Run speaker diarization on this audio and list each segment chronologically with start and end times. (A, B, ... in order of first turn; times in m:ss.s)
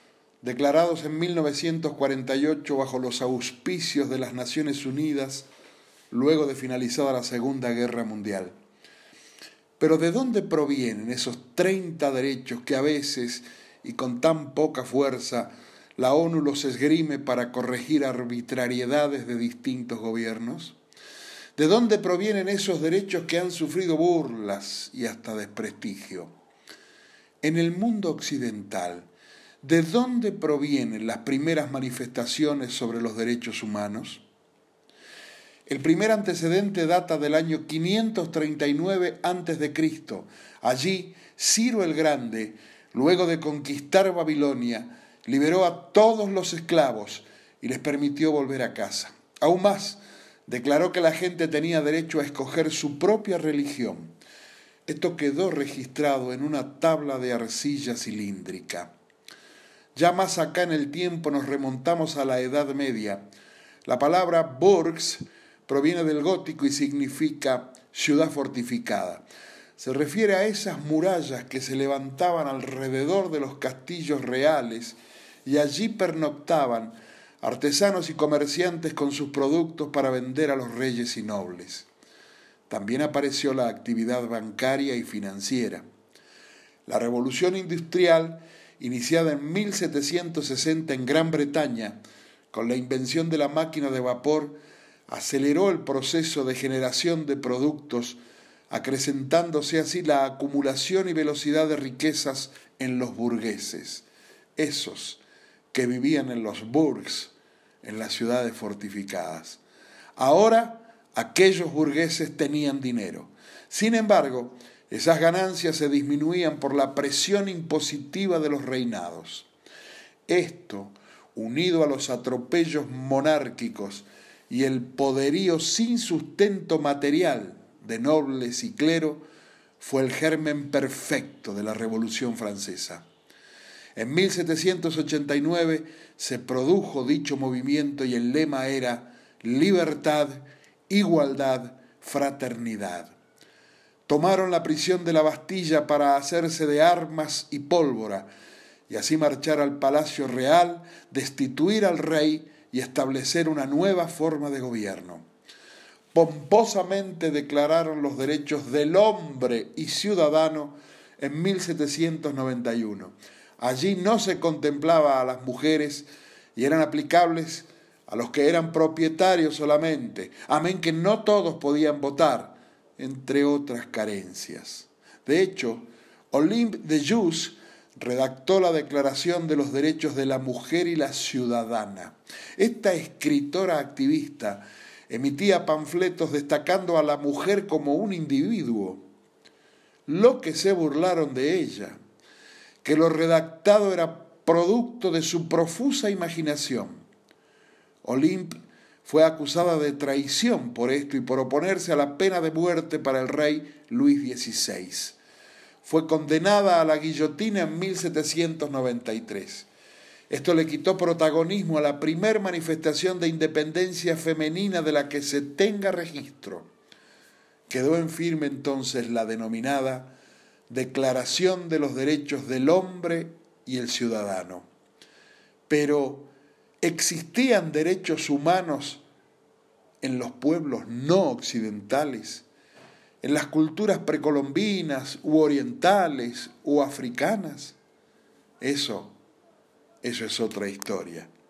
0:00.4-0:05.5 A
0:06.1-0:08.5 A
0:09.8-0:20.8 A
0:21.6-0:26.3 A
0:27.4-0:29.1 A
0:29.6-0:34.2 A
0:35.7-0:54.1 A
0:54.9-0:58.9 A
0:59.9-1:03.3 A
1:03.8-1:09.2 A
1:09.8-1:21.9 A
1:22.7-1:25.8 A
1:26.8-1:32.0 A
1:32.5-1:38.2 A
1:38.7-1:44.0 A
1:44.6-1:45.2 A
1:45.7-1:47.3 A
1:47.8-1:49.6 A
1:50.2-1:59.5 A
2:00.3-2:09.2 A
2:09.8-2:13.0 A
2:14.0-2:23.1 A
2:24.1-2:28.3 A
2:28.9-2:35.2 A
2:36.1-3:09.0 A
3:10.1-3:12.0 A
3:12.8-3:17.0 A
3:18.0-3:25.2 A
3:25.8-3:29.7 A
3:30.3-3:36.7 A
3:37.7-3:40.1 A
3:40.7-3:44.6 A
3:45.7-3:46.3 A
3:46.8-3:49.0 A
3:50.0-3:52.4 A
3:53.2-3:57.8 A
3:58.6-3:59.1 A
4:00.0-4:01.3 A